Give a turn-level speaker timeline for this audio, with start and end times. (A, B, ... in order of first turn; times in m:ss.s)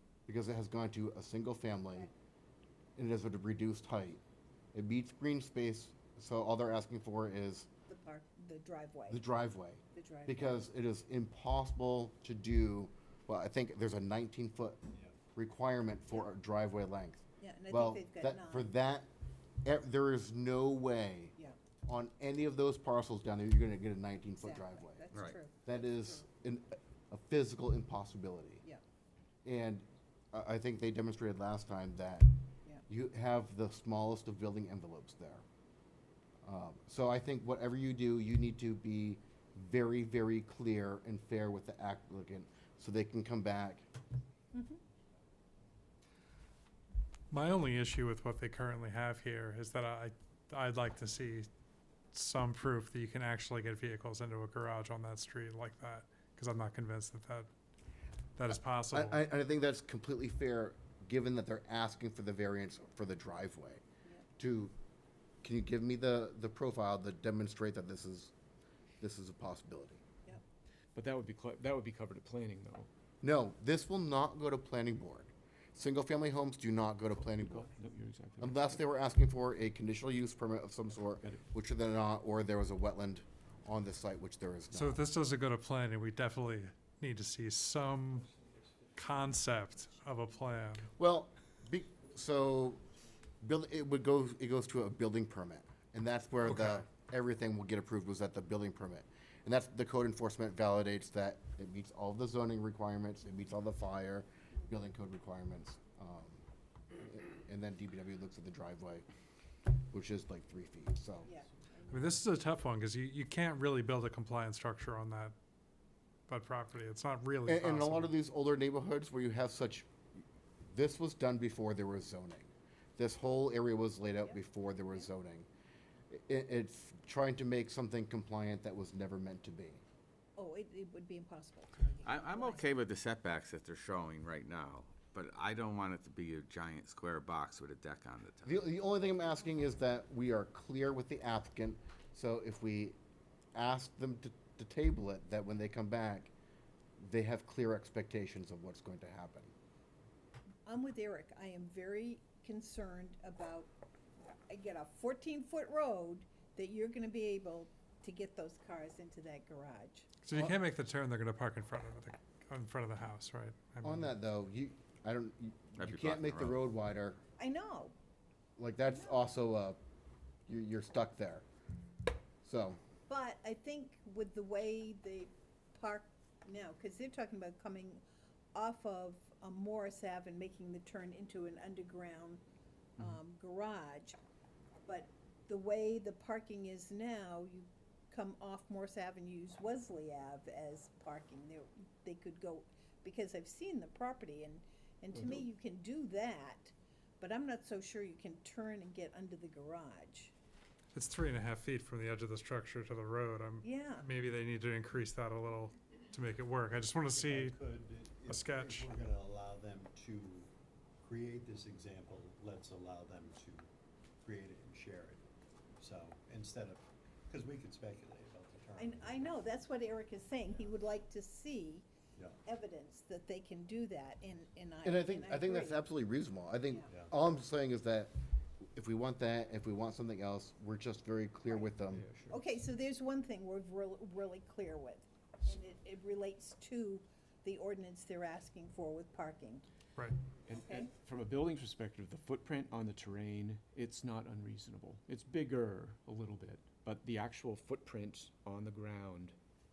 0:00.3-0:02.1 A
0:03.0-0:04.2 A
0:04.7-0:07.7 A
0:07.9-0:09.2 B
0:09.1-0:14.8 A
0:09.9-0:10.6 B
0:15.3-0:19.1 A
0:17.4-0:18.7 B
0:19.6-0:28.6 A
0:24.4-0:26.2 B
0:29.4-0:32.3 A
0:32.9-0:35.4 A
0:36.4-0:43.8 A
0:44.5-0:44.8 B
0:47.3-0:51.5 C
0:52.1-0:57.5 C
0:58.4-0:59.2 C
0:58.9-1:03.8 A
1:04.4-1:04.7 A
1:05.4-1:08.3 A
1:09.0-1:10.0 A
1:10.9-1:12.9 D
1:13.2-1:17.7 A
1:17.1-1:18.8 D
1:18.4-1:25.0 A
1:21.2-1:21.4 D
1:24.7-1:28.3 C
1:29.0-1:30.9 C
1:31.0-1:32.8 A
1:33.4-1:46.4 A
1:36.4-1:36.8 C
1:47.0-1:49.0 A
1:49.9-1:51.3 A
1:51.2-1:52.2 B
1:51.9-1:55.3 C
1:56.3-1:58.1 C
1:57.4-2:05.5 A
2:06.1-2:09.8 A
2:10.4-2:12.7 B
2:12.0-2:18.5 E
2:18.4-2:23.0 A
2:23.5-2:26.3 A
2:27.0-2:29.5 A
2:30.6-2:33.7 B
2:34.5-2:40.1 B
2:40.2-2:44.1 C
2:43.8-2:47.2 A
2:46.0-2:46.5 E
2:47.4-2:47.9 B
2:48.6-2:49.8 A
2:48.9-2:49.2 B
2:50.5-2:51.4 A
2:52.4-2:52.8 A
2:53.1-2:58.0 B
2:58.5-3:02.4 B
3:03.0-3:04.2 B
3:04.8-3:20.3 B
3:15.1-3:15.4 D
3:20.9-3:27.6 C
3:23.6-3:24.1 B
3:27.0-3:33.7 F
3:28.3-3:28.9 C
3:34.2-3:35.2 F
3:35.8-3:39.3 F
3:38.8-3:41.9 B
3:42.4-3:45.8 B
3:44.8-3:48.1 A
3:46.9-3:47.1 F
3:48.7-3:52.0 A
3:51.8-3:52.4 D
3:52.3-3:59.6 B
4:00.5-4:09.3 D
4:00.5-4:00.9 B